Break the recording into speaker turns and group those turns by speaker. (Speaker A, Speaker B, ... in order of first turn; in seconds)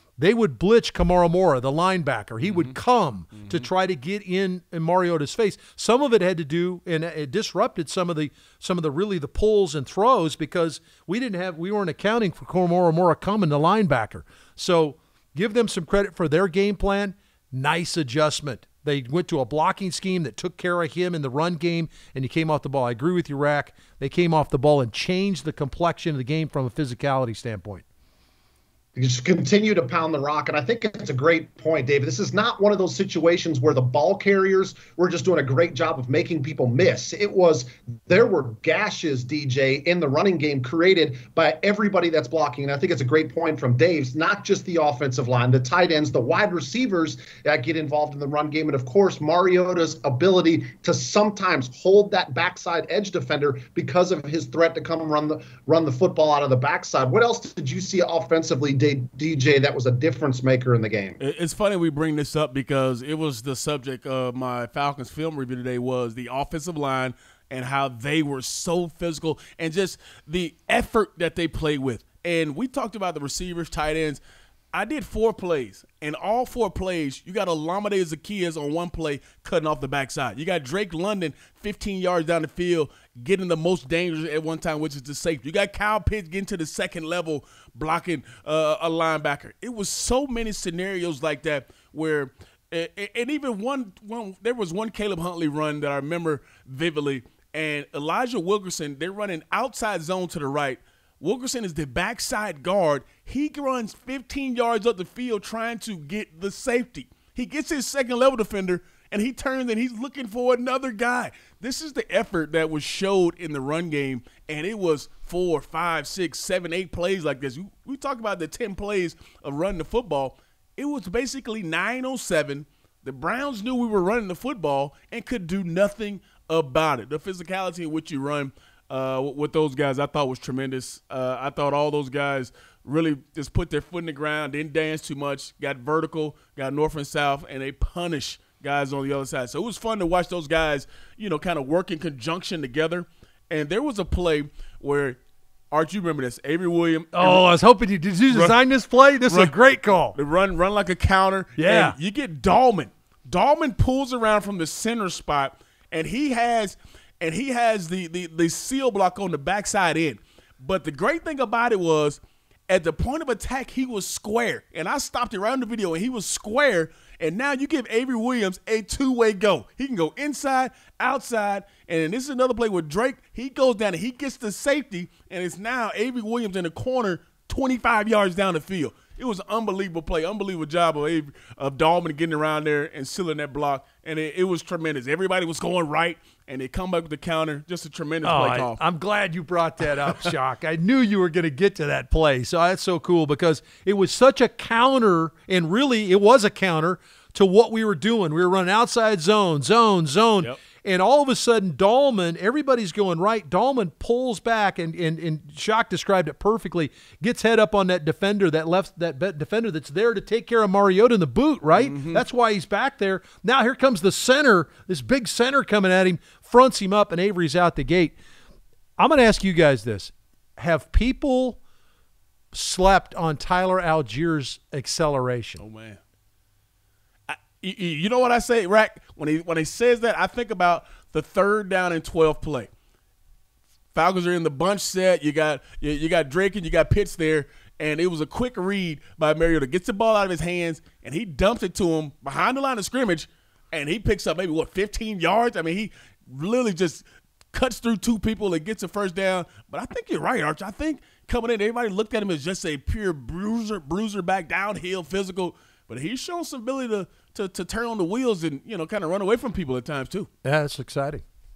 Speaker A: 0.2-27.8, 147.1-150.2, 151.6-151.9, 188.2-218.1, 219.0-221.6, 222.5-225.6, 260.4-261.2
Speaker B: 2.5-2.7, 61.2-74.2, 74.7-145.2, 145.7-147.4, 148.3-148.6, 150.1-188.8, 211.8-212.2, 225.6-226.0, 227.3-232.7, 233.9-260.3
Speaker C: 28.9-61.2